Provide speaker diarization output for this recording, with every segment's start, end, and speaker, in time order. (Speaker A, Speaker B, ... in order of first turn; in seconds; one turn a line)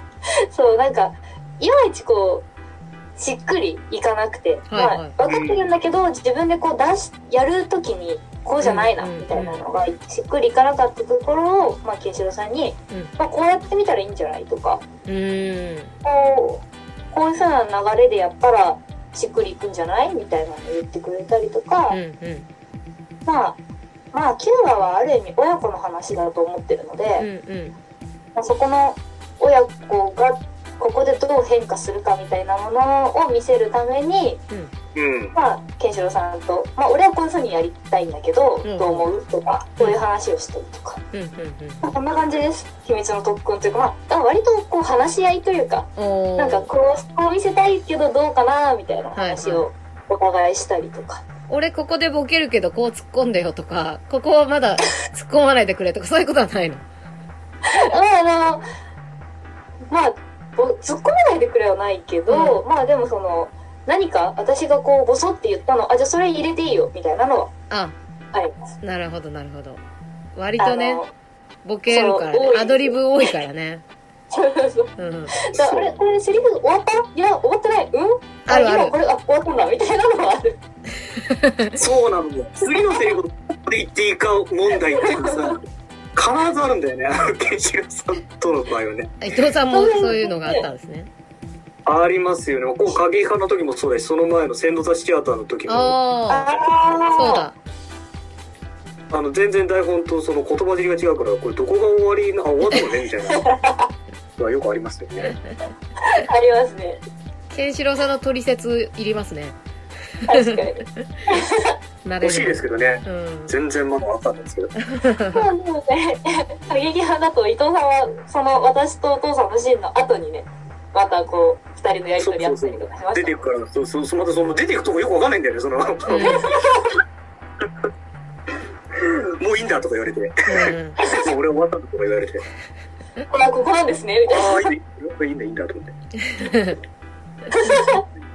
Speaker A: 0.5-2.5
Speaker A: 3.2-14.8
Speaker B: 4.7-5.1
Speaker C: 5.3-5.6
Speaker B: 8.6-9.6
Speaker B: 15.1-15.9
Speaker A: 16.0-22.0
Speaker B: 21.9-22.5
Speaker A: 23.3-23.6
Speaker A: 24.1-27.3
Speaker B: 27.2-27.8
Speaker A: 28.4-34.4
Speaker C: 35.0-35.3
Speaker A: 35.3-41.0
Speaker B: 38.6-39.1
Speaker B: 41.1-41.9
Speaker A: 41.8-51.2
Speaker B: 46.0-46.7
Speaker B: 49.2-49.7
Speaker B: 51.5-56.9
Speaker A: 57.7-58.6
Speaker A: 59.9-67.5
Speaker B: 62.3-62.6
Speaker B: 67.7-68.0
Speaker A: 68.3-68.6
Speaker B: 68.8-69.8
Speaker B: 70.4-71.0
Speaker A: 70.6-71.1
Speaker B: 71.7-73.8
Speaker A: 71.9-73.3
Speaker A: 74.3-80.6
Speaker B: 75.0-75.4
Speaker C: 75.5-75.9
Speaker B: 78.5-79.0
Speaker B: 81.2-81.8
Speaker C: 81.8-85.6
Speaker A: 82.7-83.1
Speaker A: 84.9-85.6
Speaker C: 86.2-89.1
Speaker B: 89.2-91.1
Speaker A: 89.7-90.7
Speaker C: 91.9-96.0
Speaker B: 95.7-96.5
Speaker A: 96.3-97.5
Speaker B: 97.1-97.5
Speaker C: 99.1-103.5
Speaker A: 103.3-103.9
Speaker C: 104.4-105.4
Speaker A: 106.0-107.0
Speaker B: 107.5-109.6
Speaker B: 110.2-111.4
Speaker A: 110.3-111.8
Speaker B: 112.0-113.5
Speaker C: 112.2-114.7
Speaker B: 114.8-115.5
Speaker A: 115.3-123.4
Speaker C: 122.2-126.5
Speaker B: 126.1-126.5
Speaker A: 126.1-127.0
Speaker C: 128.9-132.4
Speaker B: 130.5-131.0
Speaker A: 133.3-134.7
Speaker C: 134.3-135.9
Speaker B: 136.2-136.8
Speaker A: 137.5-138.0